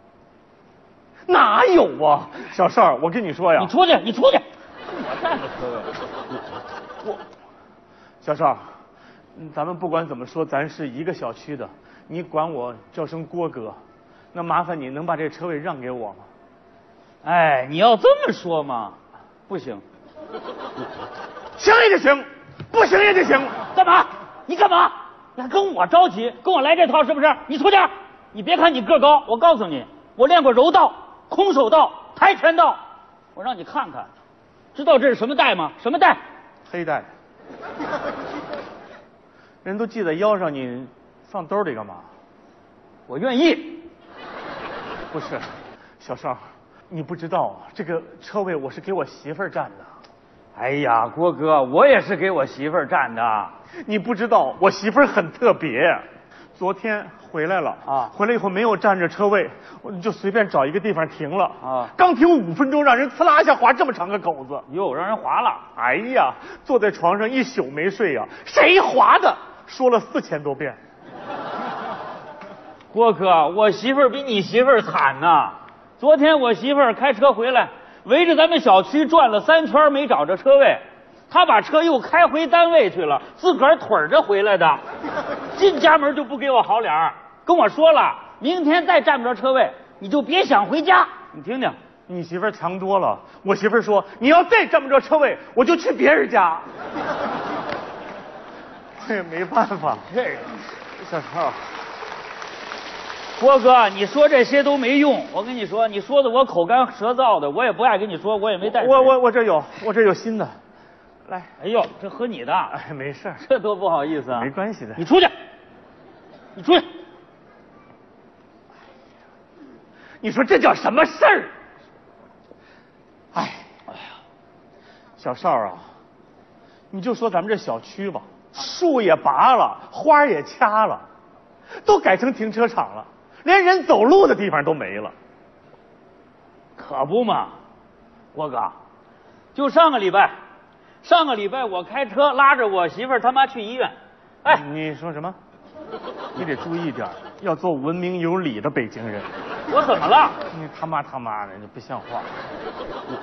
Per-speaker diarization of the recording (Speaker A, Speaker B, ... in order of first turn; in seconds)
Speaker A: 1.3-3.7, 8.2-8.7, 9.3-13.8, 14.3-16.3, 21.6-23.6, 36.7-37.1, 39.6-42.1, 45.1-49.9, 53.8-56.0, 56.6-64.7, 65.8-70.8, 92.1-96.7, 99.0-100.1, 108.6-110.5, 112.7-113.4, 114.3-115.0, 120.2-121.5, 123.3-123.7, 125.2-125.9, 126.9-131.0, 131.8-135.1, 144.5-145.4, 146.3-149.3, 150.5-152.3
Speaker B: 3.6-5.9, 17.2-19.0, 19.5-19.8, 23.7-32.8, 33.4-34.1, 34.8-36.2, 43.1-43.9, 50.6-53.5, 57.9-58.1, 61.6-61.9, 64.7-65.7, 72.9-84.8, 85.5-91.8, 100.1-101.6, 103.4-109.2, 111.6-112.8, 113.4-115.3, 116.6-116.9, 136.8-137.6, 138.3-138.8, 139.6-140.3, 141.0-144.6, 149.7-150.4